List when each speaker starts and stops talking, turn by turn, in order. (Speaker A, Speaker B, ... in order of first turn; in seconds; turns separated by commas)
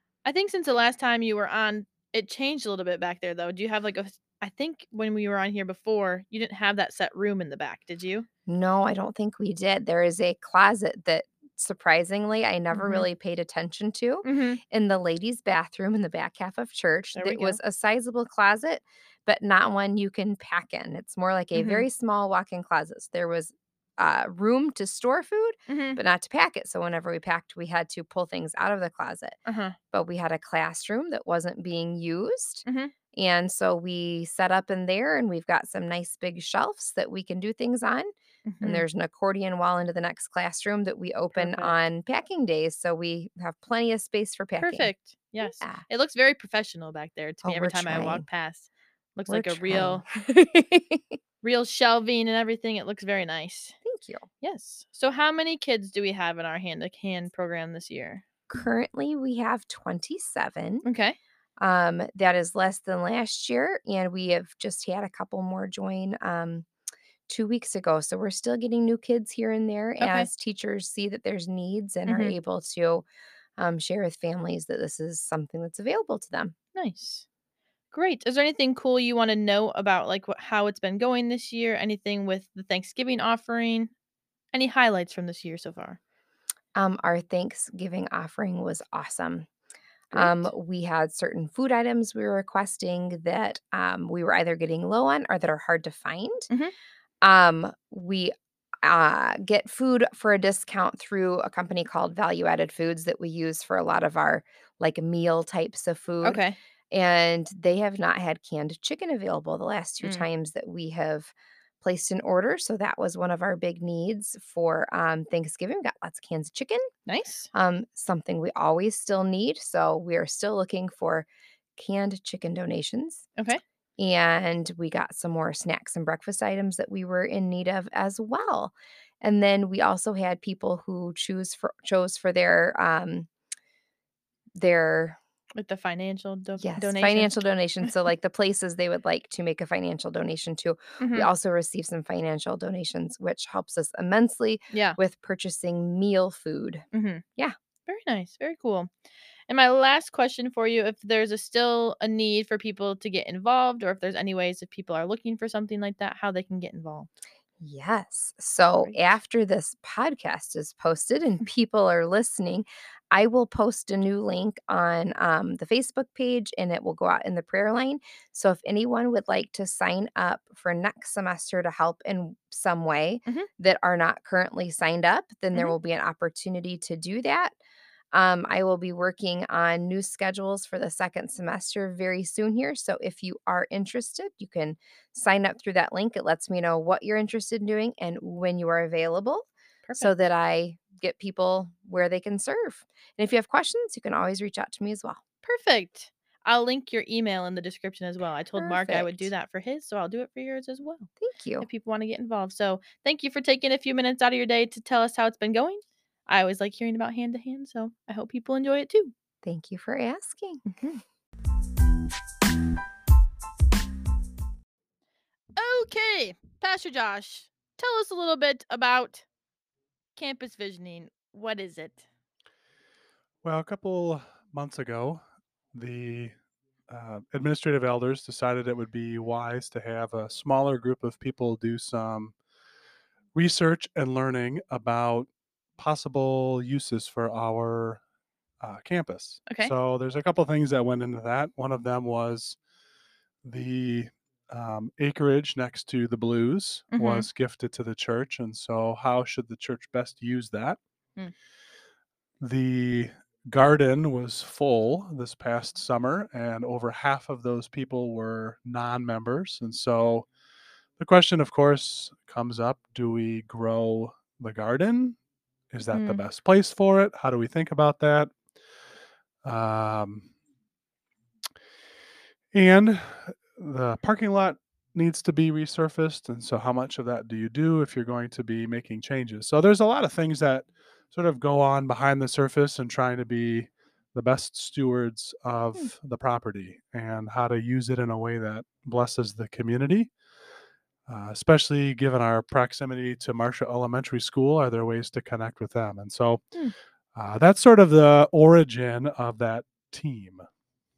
Speaker A: 0.2-8.3, Speaker B: 8.5-29.4, Speaker A: 12.7-13.1, Speaker A: 14.2-14.6, Speaker A: 17.1-17.6, Speaker A: 21.5-21.9, Speaker A: 25.7-26.0, Speaker A: 29.4-29.8, Speaker B: 29.9-45.8, Speaker A: 32.6-32.9, Speaker A: 38.5-38.9, Speaker A: 41.3-41.7, Speaker A: 44.6-50.0, Speaker B: 47.4-48.2, Speaker B: 49.3-51.2, Speaker A: 51.4-53.8, Speaker B: 53.8-54.2, Speaker A: 54.4-58.2, Speaker B: 58.5-60.8, Speaker A: 60.8-61.2, Speaker B: 61.6-66.7, Speaker B: 67.3-76.5, Speaker A: 70.0-70.3, Speaker A: 72.0-72.3, Speaker A: 76.7-77.2, Speaker A: 77.9-83.9, Speaker A: 84.5-86.0, Speaker B: 86.7-89.5, Speaker B: 90.1-96.5, Speaker A: 90.1-90.5, Speaker B: 97.2-116.9, Speaker A: 106.2-106.5, Speaker A: 110.0-110.3, Speaker A: 117.1-117.5, Speaker B: 117.5-123.2, Speaker B: 124.0-133.3, Speaker B: 134.5-135.2, Speaker A: 135.6-137.9, Speaker B: 136.6-146.8, Speaker A: 141.0-141.3, Speaker A: 144.7-145.0, Speaker A: 146.9-147.2, Speaker A: 147.9-148.9, Speaker A: 149.5-157.1, Speaker B: 157.6-177.6, Speaker B: 178.1-195.2, Speaker A: 189.9-190.1, Speaker A: 195.4-201.1, Speaker B: 198.6-199.3, Speaker B: 201.2-201.7, Speaker A: 201.6-209.1, Speaker B: 209.4-210.8, Speaker A: 210.7-211.0, Speaker A: 215.6-219.2, Speaker A: 220.2-222.1, Speaker C: 223.4-225.2, Speaker C: 225.7-226.3, Speaker C: 226.9-232.3, Speaker C: 233.3-238.0, Speaker C: 238.6-242.6, Speaker A: 239.5-239.7, Speaker C: 243.4-250.8, Speaker A: 246.9-247.3, Speaker C: 252.4-260.3, Speaker C: 261.0-265.2, Speaker C: 265.7-268.3, Speaker A: 265.9-266.2, Speaker C: 269.4-270.3, Speaker C: 272.5-290.1, Speaker C: 291.1-296.5, Speaker C: 297.1-300.4